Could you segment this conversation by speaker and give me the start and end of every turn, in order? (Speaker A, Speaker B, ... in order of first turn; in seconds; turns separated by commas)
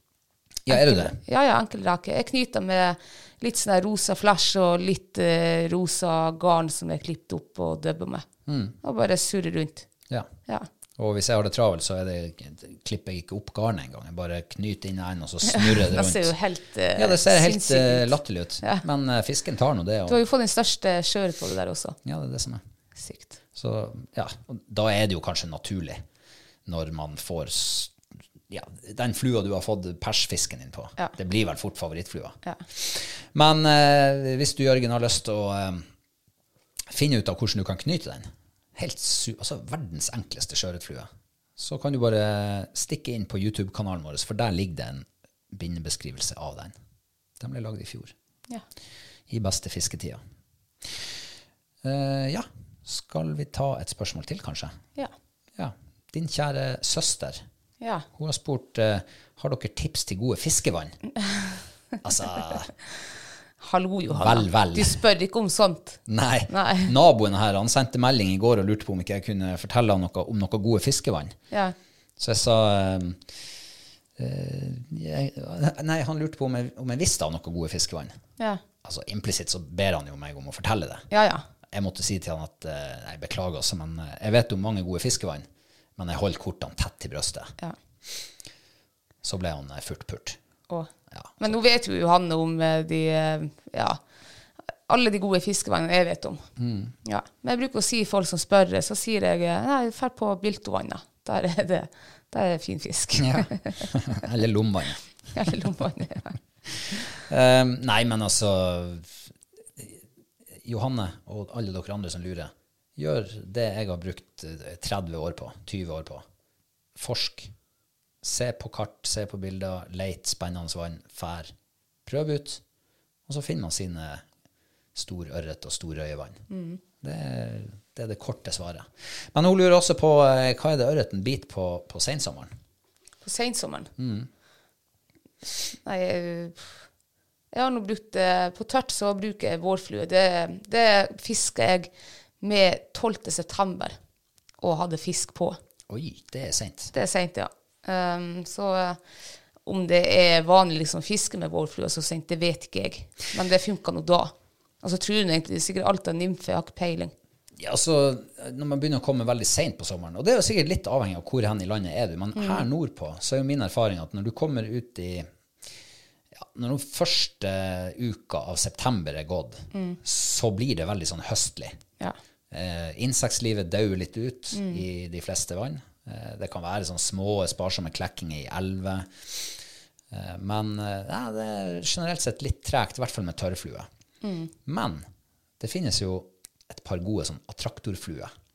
Speaker A: 0.7-1.1, Speaker B: 0.7-8.2, Speaker A: 8.5-8.7, Speaker B: 8.8-9.8, Speaker A: 11.0-16.3, Speaker B: 15.4-18.8, Speaker A: 16.9-20.2, Speaker B: 20.1-22.0, Speaker A: 22.0-22.6, Speaker B: 23.0-23.4, Speaker A: 23.6-26.0, Speaker A: 26.6-27.9, Speaker A: 28.5-35.9, Speaker A: 36.9-46.7, Speaker A: 47.4-48.1, Speaker A: 49.3-50.2, Speaker A: 51.8-54.8, Speaker A: 55.5-57.4, Speaker B: 57.8-58.0, Speaker A: 58.1-61.0, Speaker A: 62.0-62.7, Speaker B: 63.6-66.9, Speaker A: 64.1-65.0, Speaker A: 66.1-71.3, Speaker A: 72.2-73.2, Speaker A: 74.2-78.2, Speaker A: 78.8-81.0, Speaker B: 81.1-81.5, Speaker A: 81.7-85.5, Speaker A: 86.0-87.5, Speaker A: 89.2-90.4, Speaker B: 90.7-94.0, Speaker A: 91.1-91.6, Speaker B: 94.9-96.4, Speaker A: 96.6-96.9, Speaker B: 97.0-103.9, Speaker A: 103.2-105.0, Speaker B: 105.3-106.3, Speaker A: 106.8-109.2, Speaker A: 110.6-116.2, Speaker A: 117.0-117.5, Speaker A: 118.2-121.5, Speaker A: 122.0-122.6, Speaker A: 123.3-124.2, Speaker A: 124.9-126.4, Speaker B: 126.5-126.8, Speaker A: 127.0-132.5, Speaker B: 133.2-133.9, Speaker A: 134.0-134.3, Speaker B: 135.8-136.7, Speaker B: 137.5-143.9, Speaker B: 144.6-145.6, Speaker A: 145.9-146.9, Speaker B: 146.9-149.0, Speaker B: 149.6-157.1, Speaker A: 157.6-165.3, Speaker B: 162.3-162.6, Speaker A: 166.4-171.8, Speaker B: 169.7-170.0, Speaker A: 172.5-183.9, Speaker B: 174.5-174.8, Speaker B: 184.2-184.5, Speaker A: 184.6-185.0, Speaker A: 185.6-188.3